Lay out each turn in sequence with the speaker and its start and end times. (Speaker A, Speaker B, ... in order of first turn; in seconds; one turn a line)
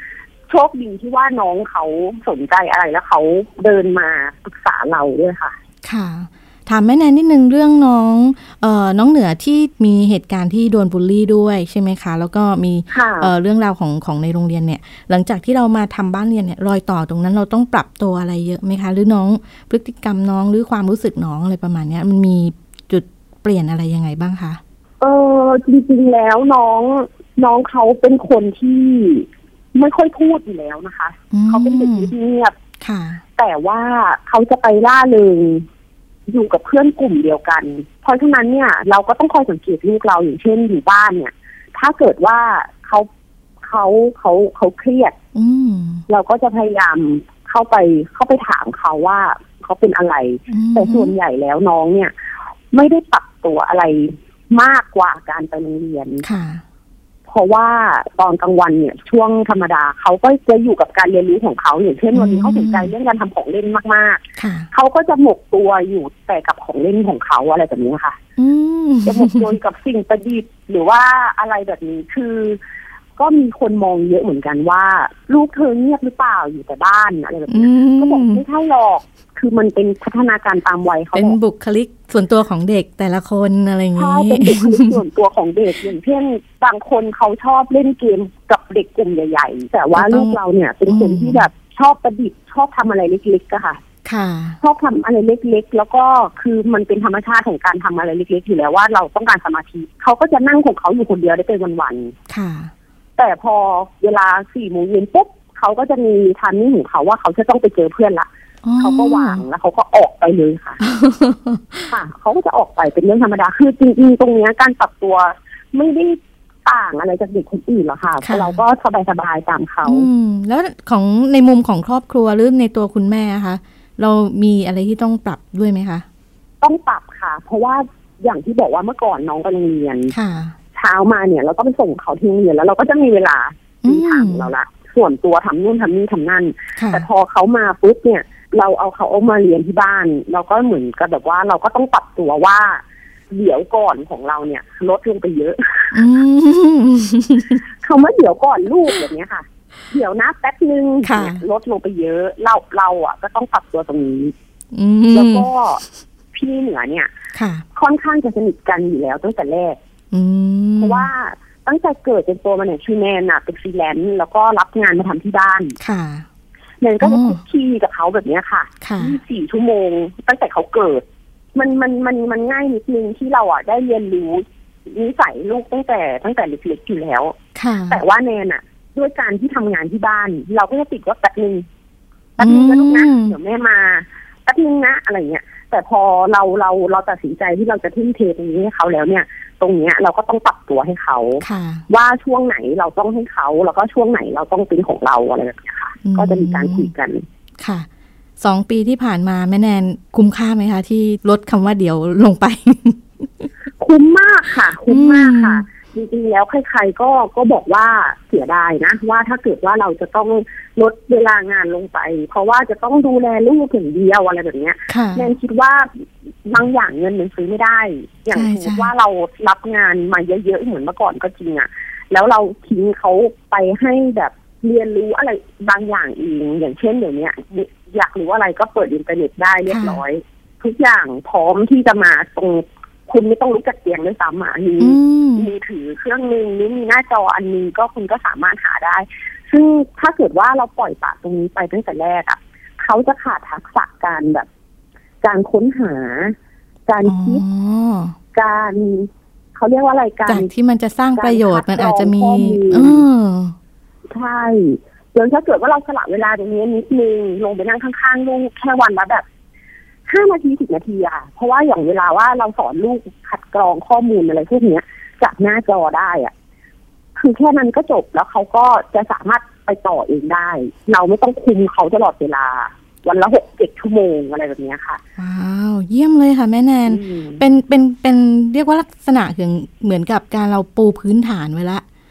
Speaker A: 0.5-5.5
Speaker B: 5.8-24.6
Speaker A: 12.9-13.3
Speaker A: 25.0-32.5
Speaker B: 31.3-32.1
Speaker B: 32.8-33.2
Speaker A: 33.4-35.6
Speaker A: 36.3-43.1
Speaker A: 43.6-45.1
Speaker B: 45.4-46.0
Speaker A: 46.1-52.1
Speaker B: 50.5-51.1
Speaker A: 52.7-56.2
Speaker B: 56.2-56.6
Speaker A: 57.3-68.2
Speaker B: 62.1-62.9
Speaker B: 64.4-64.7
Speaker B: 68.4-69.5
Speaker A: 69.0-72.6
Speaker A: 73.2-81.4
Speaker B: 77.5-78.4
Speaker B: 81.1-85.0
Speaker A: 84.0-93.8
Speaker B: 89.9-91.5
Speaker B: 94.0-94.6
Speaker A: 94.6-102.1
Speaker B: 102.3-102.7
Speaker A: 103.2-108.3
Speaker B: 108.6-109.4
Speaker A: 108.8-110.8
Speaker B: 110.8-111.9
Speaker A: 111.9-120.1
Speaker B: 118.2-118.6
Speaker B: 119.8-126.0
Speaker A: 126.6-130.1
Speaker B: 130.1-130.5
Speaker A: 130.8-146.1
Speaker B: 133.8-134.5
Speaker B: 136.8-137.1
Speaker B: 145.9-147.6
Speaker A: 147.8-154.3
Speaker B: 151.0-151.4
Speaker B: 154.7-155.5
Speaker A: 155.1-157.1
Speaker B: 157.3-157.6
Speaker A: 157.8-159.8
Speaker B: 160.1-161.1
Speaker A: 160.8-165.8
Speaker B: 165.8-166.2
Speaker A: 166.8-171.0
Speaker B: 167.0-167.4
Speaker B: 168.8-169.2
Speaker A: 171.5-177.4
Speaker B: 177.5-178.0
Speaker A: 177.9-181.7
Speaker A: 182.4-197.2
Speaker B: 182.4-183.4
Speaker B: 191.4-191.8
Speaker B: 196.0-196.9
Speaker B: 197.6-197.9
Speaker B: 198.4-203.5
Speaker A: 203.8-244.5
Speaker B: 204.9-205.6
Speaker B: 214.9-215.3
Speaker B: 218.3-218.9
Speaker B: 229.7-230.0
Speaker B: 234.8-235.5
Speaker A: 245.2-246.4
Speaker A: 246.9-247.4
Speaker B: 247.0-248.1
Speaker A: 248.3-250.5
Speaker B: 250.2-253.6
Speaker A: 251.1-253.0
Speaker A: 254.1-259.2
Speaker A: 260.1-266.3
Speaker A: 267.1-275.0
Speaker B: 275.2-281.8
Speaker A: 276.9-277.4